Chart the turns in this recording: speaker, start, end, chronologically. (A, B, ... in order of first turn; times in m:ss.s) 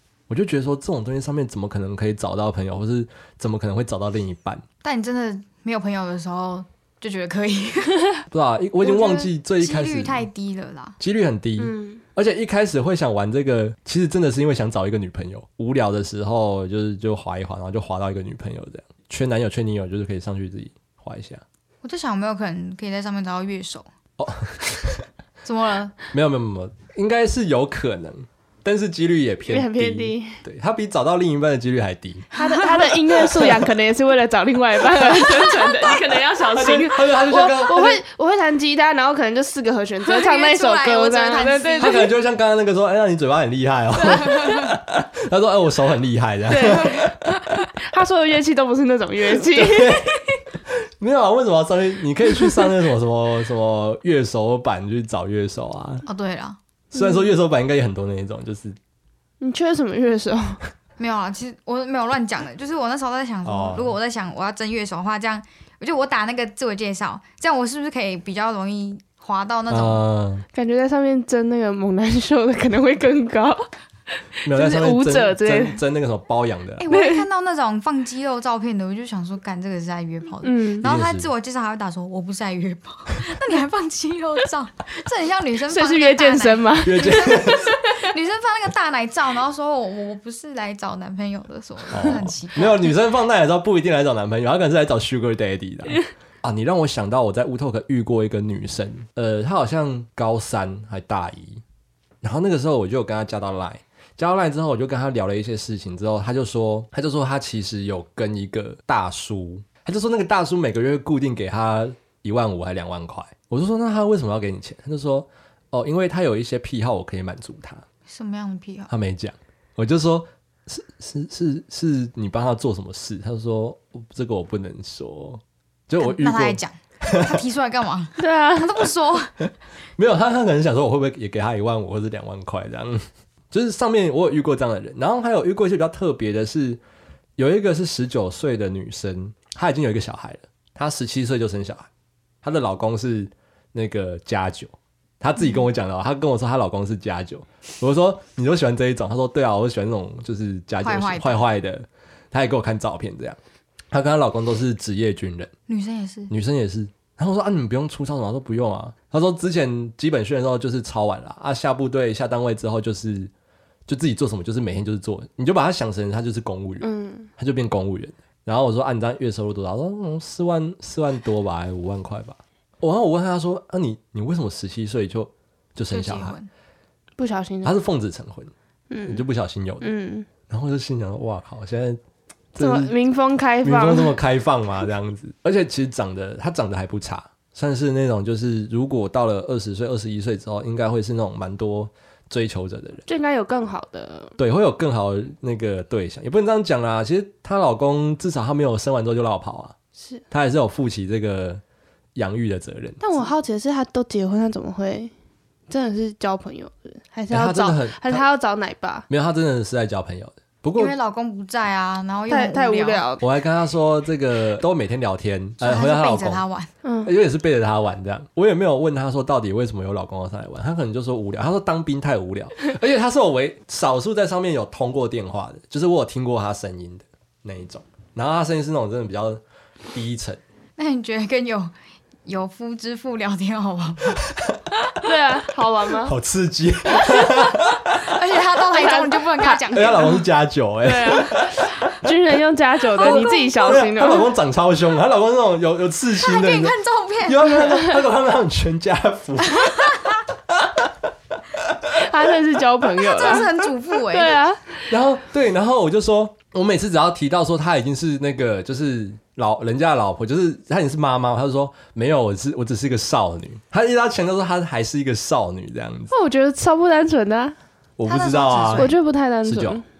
0:00.3-0:04.6 A
0:04.8-0:08.1 B
0:08.3-0:10.3 A
0:08.8-0:11.0 B
0:11.0-0:21.4 A
0:11.6-0:12.0 C
0:21.8-0:23.9 B
0:24.2-0:25.1 A
0:25.4-0:26.0 B
0:26.1-0:33.7 A
0:29.5-0:30.4 C
0:32.3-0:32.8 B
0:32.4-0:42.1 C
0:35.4-0:36.0 B
0:36.4-0:38.0 A
0:40.0-0:42.1 B
0:41.8-0:47.3 A
0:44.1-0:44.6 B
0:46.5-0:47.2 C
0:47.7-0:50.1 C
0:49.4-0:50.1 A
0:50.7-0:56.0 A
0:56.1-0:56.6 B
0:56.9-0:58.8 A
0:56.9-0:57.3 C
0:59.4-1:00.6 C
1:01.0-1:10.0 B
1:03.4-1:03.9 A
1:09.7-1:10.4 A
1:10.5-1:15.8 C
1:14.5-1:16.9 A
1:16.8-1:32.9 B
1:16.9-1:17.3 C
1:20.4-1:20.8 C
1:20.8-1:21.3 A
1:25.7-1:27.7 C
1:26.8-1:27.7 A
1:31.9-1:41.6 A
1:42.2-1:57.8 A
1:58.1-1:58.9 B
1:58.9-2:07.4 A
2:06.0-2:09.4 B
2:08.2-2:08.9 C
2:10.0-2:16.8 A
2:17.4-2:21.9 A
2:22.4-2:33.4 A
2:30.8-2:31.5 B
2:33.9-2:35.5 A
2:35.7-2:36.3 B
2:36.3-2:43.3 A
2:43.9-2:56.4 A
2:46.8-2:47.3 C
2:55.9-2:56.5 B
2:57.2-2:57.8 C
2:57.6-2:58.5 A
2:58.9-2:59.2 C
2:59.0-2:59.9 A
2:59.8-3:00.3 C
3:00.5-3:02.0 A
3:02.6-3:02.9 A
3:02.6-3:04.2 C
3:03.6-3:13.1 A
3:13.1-3:14.4 C
3:14.4-3:19.8 A
3:20.0-3:20.2 C
3:20.3-3:21.6 A
3:22.2-3:23.0 A
3:23.0-3:25.1 C
3:25.7-3:29.1 C
3:27.3-3:28.3 A
3:29.1-3:31.0 A
3:30.8-3:33.0 B
3:32.3-3:33.3 C
3:33.2-3:36.4 A
3:35.6-3:36.7 B
3:36.8-3:37.1 C
3:37.0-3:49.4 A
3:49.9-3:50.4 A
3:50.8-3:51.7 B
3:52.2-3:54.3 B
3:54.2-3:54.5 A
3:55.0-3:56.2 C
3:56.0-3:58.1 A
3:57.9-4:00.2 B
3:58.7-4:00.2 C
3:59.7-4:02.1 A
4:00.8-4:04.3 C
4:03.0-4:11.8 A
4:03.0-4:03.6 B
4:06.2-4:07.8 B
4:09.5-4:10.1 B
4:11.9-4:14.8 C
4:13.0-4:14.4 B
4:14.9-4:26.1 A
4:26.1-4:27.6 C
4:28.0-4:29.8 A
4:28.1-4:28.9 B
4:28.8-4:29.8 C